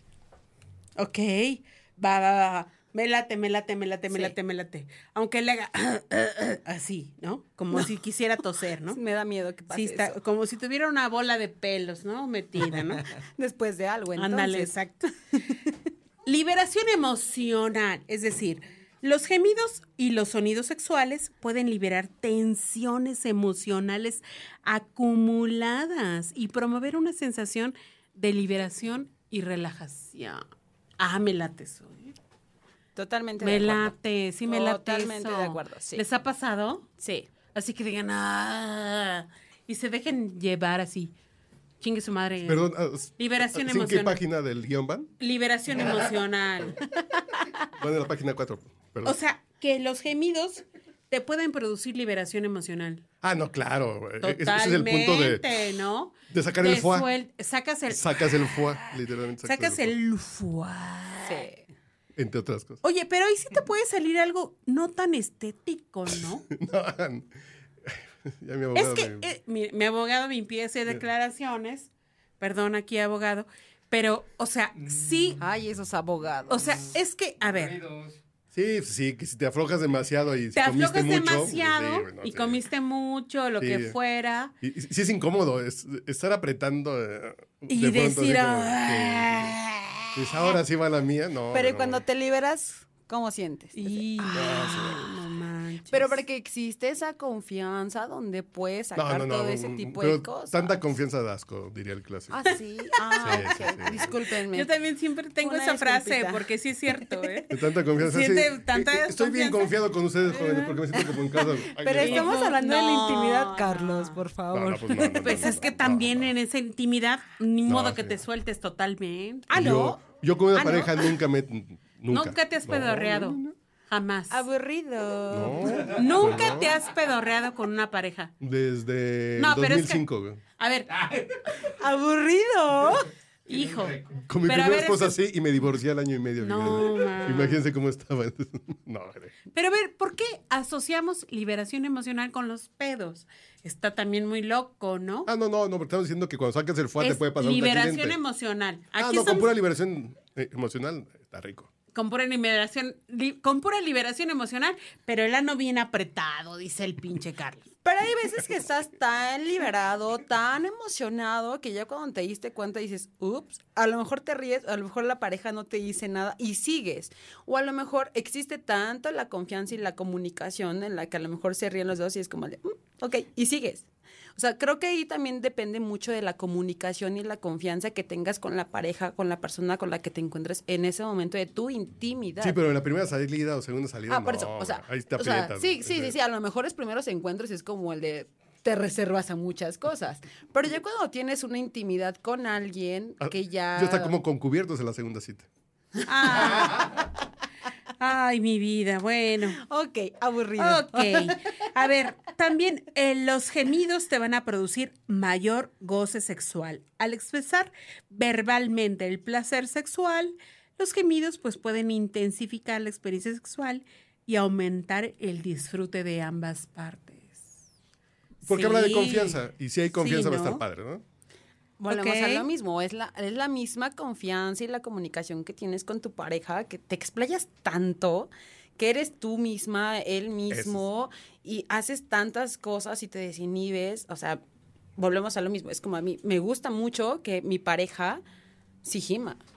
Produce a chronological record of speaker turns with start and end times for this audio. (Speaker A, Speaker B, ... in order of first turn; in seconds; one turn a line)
Speaker A: 1.0-9.0
Speaker B: 4.1-4.4
Speaker B: 8.9-10.2
Speaker A: 9.7-13.1
Speaker B: 13.2-14.7
Speaker A: 14.2-15.1
Speaker A: 16.2-30.4
Speaker A: 31.0-32.2
Speaker B: 33.0-33.9
Speaker A: 33.4-36.9
Speaker B: 34.5-36.0
Speaker B: 37.0-37.3
Speaker A: 37.5-41.1
Speaker A: 41.8-42.6
Speaker C: 42.5-45.1
Speaker A: 43.2-44.2
Speaker A: 45.2-46.9
Speaker C: 47.8-49.2
Speaker A: 49.0-53.0
Speaker C: 53.2-55.5
Speaker A: 54.2-61.5
Speaker C: 56.3-57.1
Speaker C: 57.9-59.9
Speaker B: 61.2-61.6
Speaker C: 62.2-62.8
Speaker A: 62.8-66.5
Speaker C: 66.5-67.3
Speaker C: 67.9-69.3
Speaker A: 68.8-75.4
Speaker B: 75.4-76.8
Speaker A: 76.5-77.9
Speaker C: 78.5-82.6
Speaker A: 80.5-84.5
Speaker C: 83.6-84.0
Speaker C: 84.6-89.6
Speaker A: 87.7-90.4
Speaker C: 90.1-92.0
Speaker B: 91.5-94.9
Speaker A: 93.8-96.2
Speaker C: 94.3-95.0
Speaker B: 95.9-100.8
Speaker C: 99.0-102.5
Speaker B: 102.3-104.7
Speaker A: 102.5-103.5
Speaker C: 103.2-104.1
Speaker A: 104.5-109.7
Speaker B: 105.4-107.4
Speaker C: 107.5-112.3
Speaker B: 110.3-115.5
Speaker A: 112.0-114.2
Speaker C: 114.5-116.2
Speaker A: 115.1-119.5
Speaker C: 117.7-118.2
Speaker B: 119.5-120.0
Speaker C: 119.5-123.5
Speaker B: 120.5-121.2
Speaker A: 122.1-124.4
Speaker B: 124.3-126.1
Speaker C: 125.3-126.7
Speaker A: 125.8-128.3
Speaker C: 128.4-130.4
Speaker A: 129.4-130.0
Speaker A: 130.6-131.2
Speaker B: 131.5-133.1
Speaker A: 133.5-135.2
Speaker C: 134.3-139.3
Speaker A: 136.4-137.6
Speaker A: 139.5-145.3
Speaker C: 145.2-148.2
Speaker A: 147.0-149.5
Speaker C: 149.0-151.7
Speaker A: 151.9-157.7
Speaker B: 157.8-182.6
Speaker C: 182.4-186.1
Speaker B: 184.1-194.2
Speaker C: 193.2-195.5
Speaker A: 196.0-196.9
Speaker B: 196.3-196.9
Speaker A: 198.0-199.6
Speaker B: 199.6-201.4
Speaker A: 200.6-217.5
Speaker A: 218.4-219.4
Speaker C: 218.4-221.0
Speaker A: 219.9-220.6
Speaker B: 221.8-234.4
Speaker A: 221.9-222.5
Speaker C: 230.5-230.8
Speaker B: 235.0-238.2
Speaker B: 238.8-239.4